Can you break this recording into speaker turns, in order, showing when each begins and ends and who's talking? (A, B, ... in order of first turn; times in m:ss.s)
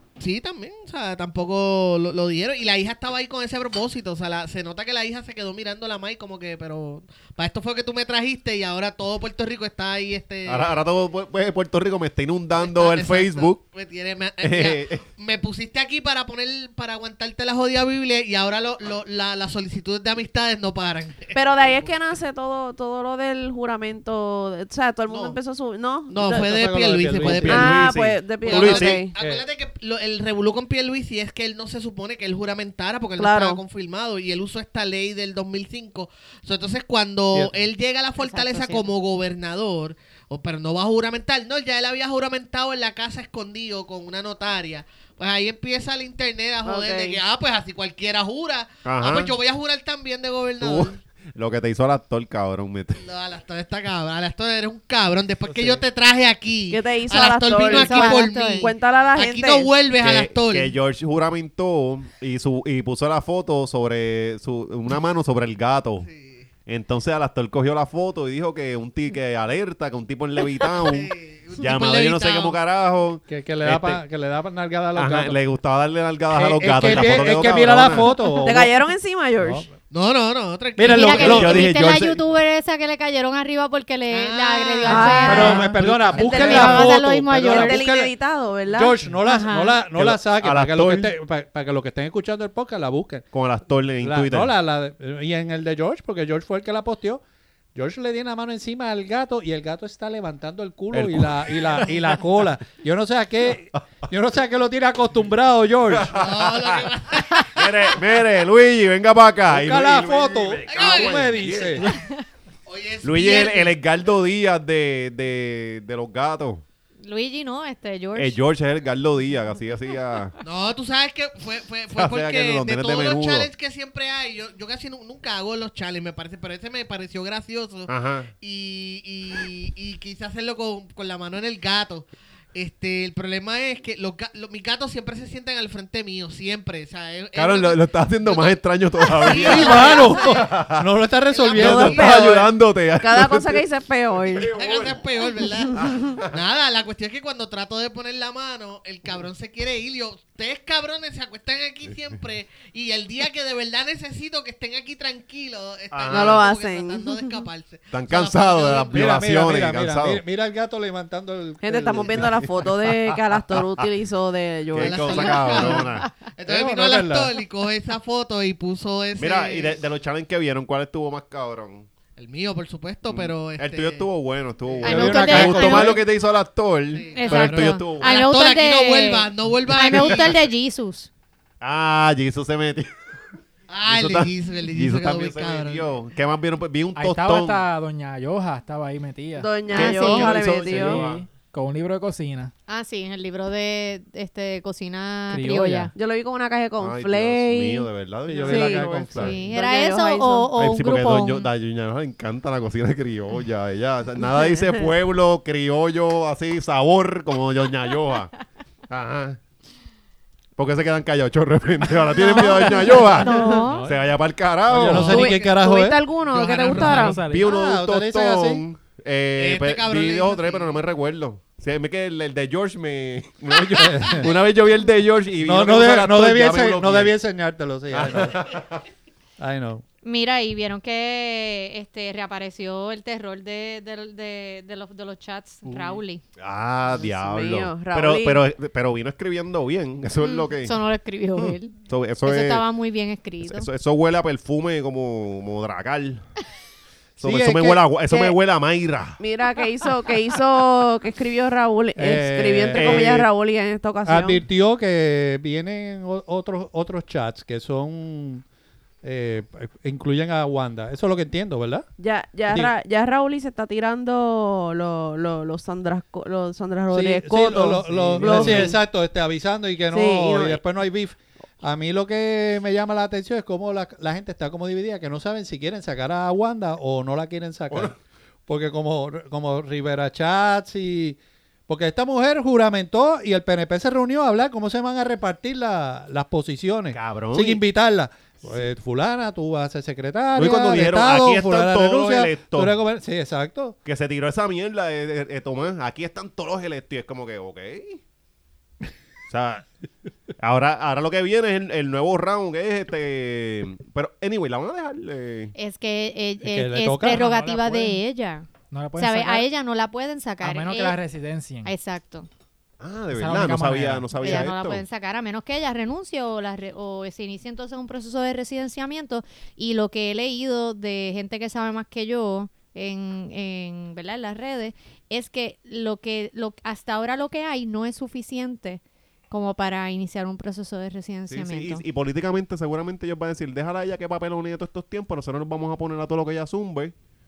0:00.2-0:10.8 A
0:10.5-0:13.6 B
0:12.6-0:21.4 A
0:14.4-0:15.0 B
0:21.3-0:26.5 C
0:25.1-0:25.4 A
0:26.1-0:27.9 A
0:26.4-0:27.8 D
0:27.2-0:29.0 B
0:27.4-0:29.1 C
0:28.4-0:51.0 A
0:29.2-0:29.4 D
0:33.2-0:33.6 C
0:38.2-0:38.8 E
0:46.6-0:47.2 C
0:48.8-0:49.3 B
0:50.6-0:53.0 B
0:53.0-1:00.8 A
0:56.7-0:59.7 C
0:57.6-0:58.7 E
1:00.0-1:06.1 B
1:06.0-1:06.5 A
1:06.7-1:14.0 B
1:10.6-1:12.6 A
1:13.3-1:15.4 D
1:15.0-1:18.4 B
1:16.3-1:18.7 D
1:18.4-1:19.7 C
1:19.4-1:19.7 D
1:19.9-1:21.7 A
1:20.8-1:21.7 D
1:20.8-1:27.8 E
1:21.1-1:22.2 B
1:24.1-1:25.6 A
1:24.9-1:29.0 C
1:25.2-1:28.1 D
1:28.7-1:33.3 D
1:29.2-1:29.8 E
1:29.9-1:31.1 B
1:33.3-1:34.5 B
1:34.0-1:37.2 D
1:37.8-1:46.2 D
1:40.9-1:42.2 B
1:45.9-1:52.0 B
1:46.1-1:48.0 A
1:49.5-1:51.8 D
1:50.7-1:51.9 A
1:52.7-1:53.8 A
1:53.0-1:56.6 B
1:57.0-1:58.4 E
1:58.2-2:00.4 B
2:00.4-2:20.5 A
2:01.9-2:03.5 B
2:07.9-2:08.3 B
2:17.4-2:20.8 B
2:19.3-2:22.1 D
2:21.3-2:22.3 A
2:21.6-2:24.5 C
2:21.6-2:23.7 B
2:24.2-2:25.0 B
2:24.5-2:39.2 A
2:25.7-2:26.0 C
2:25.8-2:26.3 B
2:35.9-2:36.4 B
2:36.1-2:37.3 C
2:37.9-2:40.2 B
2:38.9-2:42.5 D
2:41.6-2:45.8 C
2:42.2-2:43.9 B
2:44.7-2:46.1 B
2:44.8-2:49.8 A
2:46.5-2:47.4 D
2:49.2-2:51.9 B
2:52.2-2:54.1 A
2:53.1-2:58.2 B
2:54.8-2:56.0 D
2:54.8-2:56.0 E
2:56.9-3:00.4 A
2:57.1-3:01.1 E
2:59.9-3:00.4 B
3:01.6-3:02.9 B
3:03.7-3:05.9 A
3:03.9-3:07.6 B
3:07.0-3:09.6 F
3:09.4-3:11.0 C
3:09.7-3:11.2 B
3:09.7-3:10.4 E
3:10.4-3:12.5 F
3:12.7-3:15.9 E
3:15.3-3:15.9 D
3:15.9-3:17.9 C
3:16.8-3:19.4 B
3:18.3-3:19.5 D
3:18.4-3:18.9 C
3:19.2-3:21.5 E
3:19.5-3:20.5 C
3:20.6-3:28.3 B
3:24.3-3:24.8 C
3:28.9-3:29.4 B
3:30.6-3:35.3 B
3:32.1-3:33.9 E
3:33.2-3:34.1 D
3:34.7-3:36.0 D
3:34.9-3:37.3 C
3:36.3-3:37.2 A
3:36.6-3:37.5 F
3:37.3-3:47.2 B
3:37.4-3:38.6 D
3:39.4-3:40.8 A
3:43.7-3:44.3 D
3:45.4-3:48.4 D
3:47.9-3:48.8 B
3:49.4-3:49.8 D
3:50.0-3:56.2 E
3:56.4-4:00.8 B
3:56.9-3:58.4 C
4:00.6-4:03.7 E
4:01.4-4:02.6 B
4:03.4-4:06.3 B
4:07.2-4:07.9 D
4:07.2-4:09.2 B
4:09.2-4:14.4 C
4:12.0-4:13.3 D
4:12.7-4:13.3 B
4:14.0-4:18.4 D
4:19.0-4:21.9 D
4:22.0-4:28.8 C
4:26.9-4:37.9 D
4:27.9-4:28.8 B
4:29.9-4:30.6 C
4:38.5-4:53.8 D
4:46.9-4:47.6 B
4:50.4-4:52.7 B
4:53.8-4:58.0 B
4:59.3-4:59.7 B
5:00.4-5:05.5 B
5:05.6-5:11.0 E
5:06.4-5:07.3 D
5:07.0-5:08.0 F
5:08.7-5:09.5 F
5:10.4-5:11.7 F
5:11.6-5:12.3 E
5:12.8-5:14.8 B
5:13.1-5:14.4 F
5:14.2-5:31.8 E
5:31.3-5:36.9 B